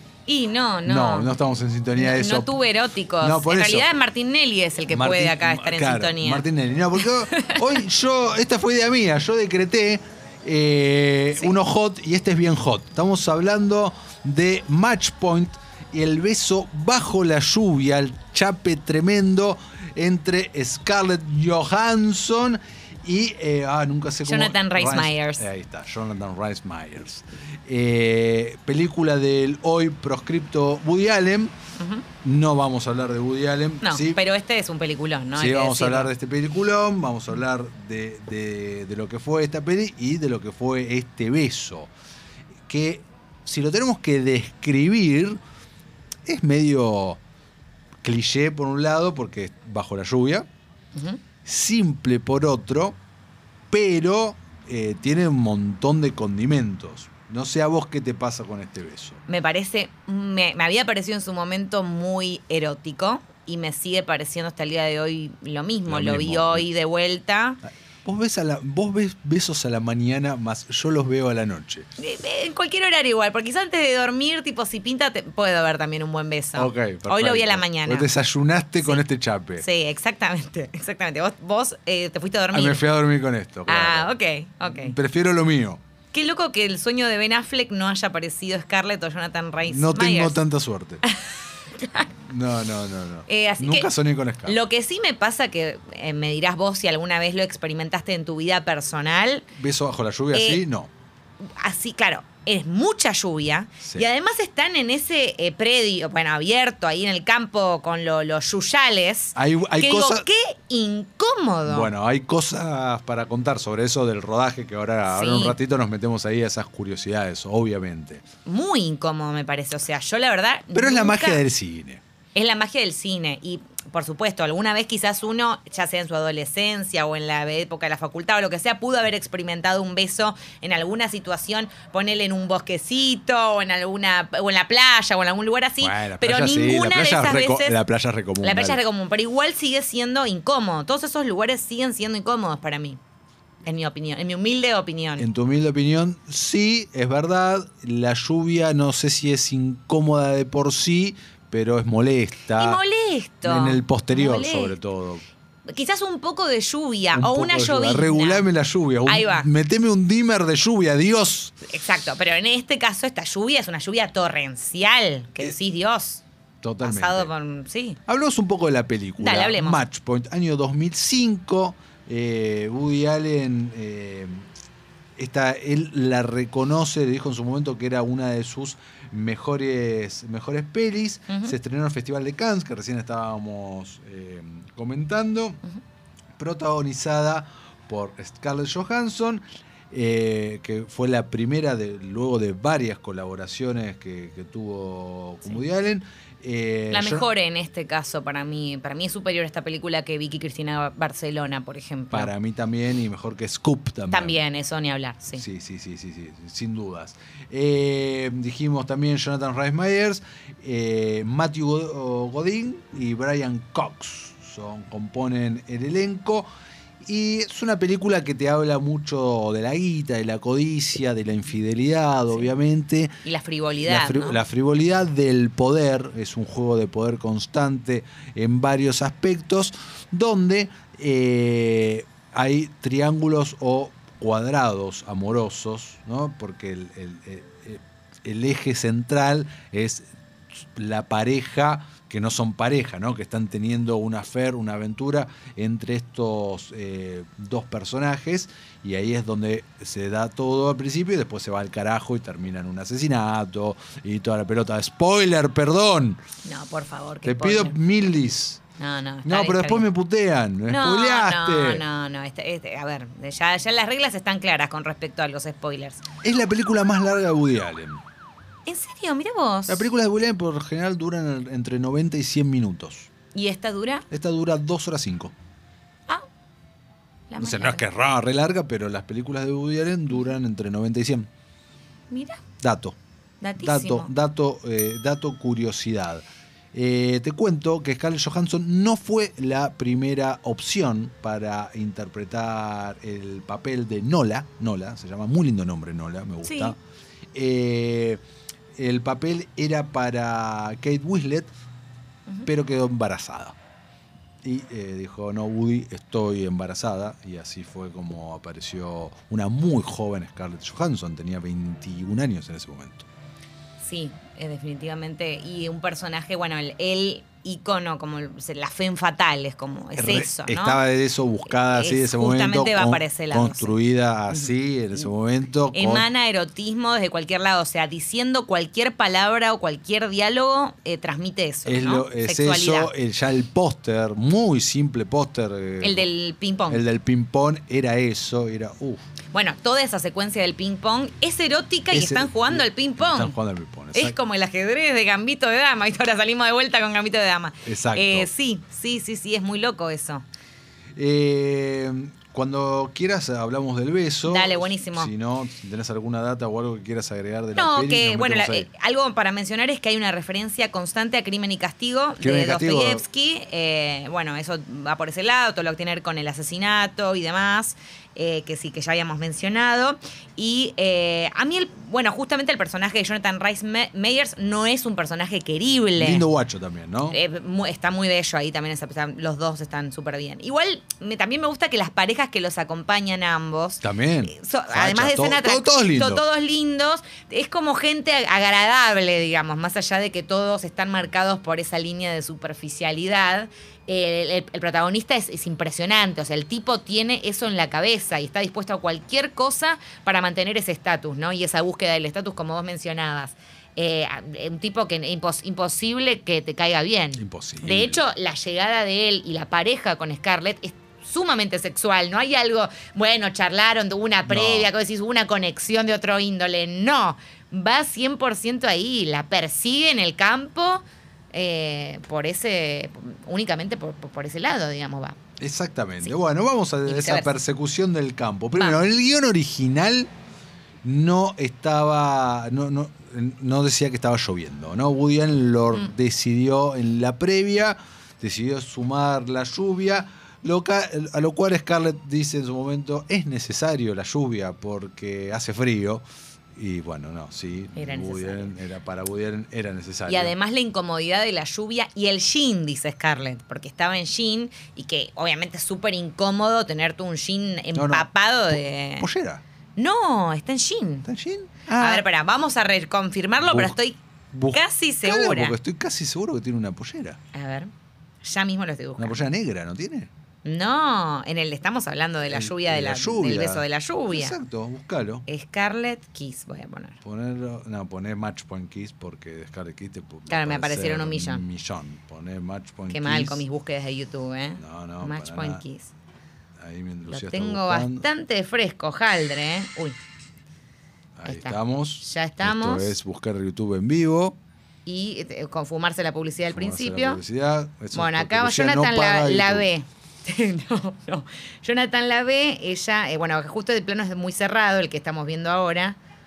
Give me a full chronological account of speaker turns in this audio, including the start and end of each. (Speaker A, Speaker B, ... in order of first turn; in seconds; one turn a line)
Speaker A: 0.3-1.3
Speaker B: 0.8-2.5
Speaker A: 1.9-7.8
Speaker B: 3.2-3.9
Speaker B: 4.9-31.6
Speaker A: 24.2-25.5
Speaker A: 31.8-32.1
Speaker B: 32.2-34.2
Speaker A: 33.8-36.1
Speaker B: 35.4-41.9
Speaker B: 42.7-45.4
Speaker B: 46.2-47.2
Speaker B: 48.0-50.5
Speaker A: 50.9-51.2
Speaker B: 51.5-53.0
Speaker B: 53.7-59.2
Speaker A: 59.3-67.6
Speaker B: 65.9-66.7
Speaker B: 67.7-71.9
Speaker A: 72.0-78.1
Speaker B: 76.5-79.7
Speaker A: 79.6-82.8
Speaker B: 82.5-85.8
Speaker A: 83.7-85.0
Speaker A: 86.1-90.4
Speaker B: 89.7-91.0
Speaker A: 91.8-92.1
Speaker B: 92.3-94.6
Speaker A: 93.3-93.9
Speaker A: 94.5-99.5
Speaker B: 99.6-100.9
Speaker A: 100.3-100.6
Speaker A: 101.4-111.9
Speaker B: 109.4-110.3
Speaker B: 111.7-118.2
Speaker A: 115.1-115.6
Speaker A: 118.5-121.4
Speaker B: 120.7-122.0
Speaker A: 122.3-137.8
Speaker B: 135.8-138.8
Speaker A: 138.4-143.0
Speaker A: 143.6-145.3
Speaker B: 145.2-152.8
Speaker A: 152.5-154.8
Speaker B: 153.4-155.2
Speaker A: 155.7-158.5
Speaker B: 157.1-161.6
Speaker A: 159.1-159.5
Speaker A: 161.7-166.2
Speaker B: 166.6-167.3
Speaker A: 166.8-168.0
Speaker B: 168.1-174.5
Speaker A: 169.2-169.8
Speaker B: 175.2-185.6
Speaker A: 181.3-181.6
Speaker B: 186.4-197.3
Speaker A: 196.9-202.3
Speaker B: 202.1-204.4
Speaker A: 204.1-205.4
Speaker B: 205.3-216.5
Speaker B: 217.0-223.2
Speaker A: 223.2-224.4
Speaker B: 223.8-256.2
Speaker A: 256.4-257.8
Speaker B: 257.2-258.6
Speaker A: 258.8-259.9
Speaker B: 259.2-261.9
Speaker A: 260.7-266.0
Speaker B: 266.2-268.0
Speaker A: 268.7-269.9
Speaker B: 269.7-273.1
Speaker A: 273.3-274.1
Speaker B: 274.1-275.3
Speaker A: 277.3-277.8
Speaker B: 277.4-281.3
Speaker A: 282.1-282.4
Speaker B: 282.6-283.0
Speaker A: 283.4-284.1
Speaker B: 283.6-296.8
Speaker A: 296.4-296.8
Speaker B: 297.3-298.2
Speaker B: 298.8-301.5
Speaker B: 302.4-303.6
Speaker B: 304.4-313.1
Speaker A: 313.8-320.8
Speaker B: 319.9-326.1
Speaker A: 321.5-325.1
Speaker A: 325.7-332.9
Speaker B: 331.6-336.1
Speaker A: 335.8-336.8
Speaker B: 336.7-339.0
Speaker A: 339.3-343.4
Speaker B: 341.9-344.2
Speaker A: 343.9-350.3
Speaker B: 347.6-348.3
Speaker B: 351.0-358.7
Speaker A: 354.2-355.1
Speaker A: 357.5-376.3
Speaker B: 362.2-363.0
Speaker B: 376.0-377.2
Speaker A: 377.1-425.2
Speaker B: 383.8-386.2
Speaker B: 407.2-408.0
Speaker B: 414.2-414.7
Speaker B: 425.4-430.1
Speaker A: 426.9-427.3
Speaker A: 428.6-428.9
Speaker B: 430.8-450.4
Speaker A: 447.8-448.6
Speaker A: 450.1-459.1
Speaker B: 457.8-459.4
Speaker A: 459.8-461.1
Speaker B: 461.1-462.1
Speaker A: 461.8-464.0
Speaker B: 463.4-463.8
Speaker B: 464.3-467.2
Speaker A: 464.5-465.6
Speaker A: 467.3-467.7
Speaker A: 468.2-469.2
Speaker B: 469.0-470.1
Speaker A: 470.4-474.4
Speaker B: 472.3-475.2
Speaker A: 475.3-477.0
Speaker B: 477.0-483.4
Speaker A: 480.3-481.4
Speaker A: 482.9-485.9
Speaker B: 484.6-485.6
Speaker B: 486.6-488.1
Speaker A: 487.1-490.0
Speaker B: 491.2-494.4
Speaker A: 491.2-493.0
Speaker A: 494.9-497.2
Speaker B: 496.5-499.7
Speaker A: 497.9-506.0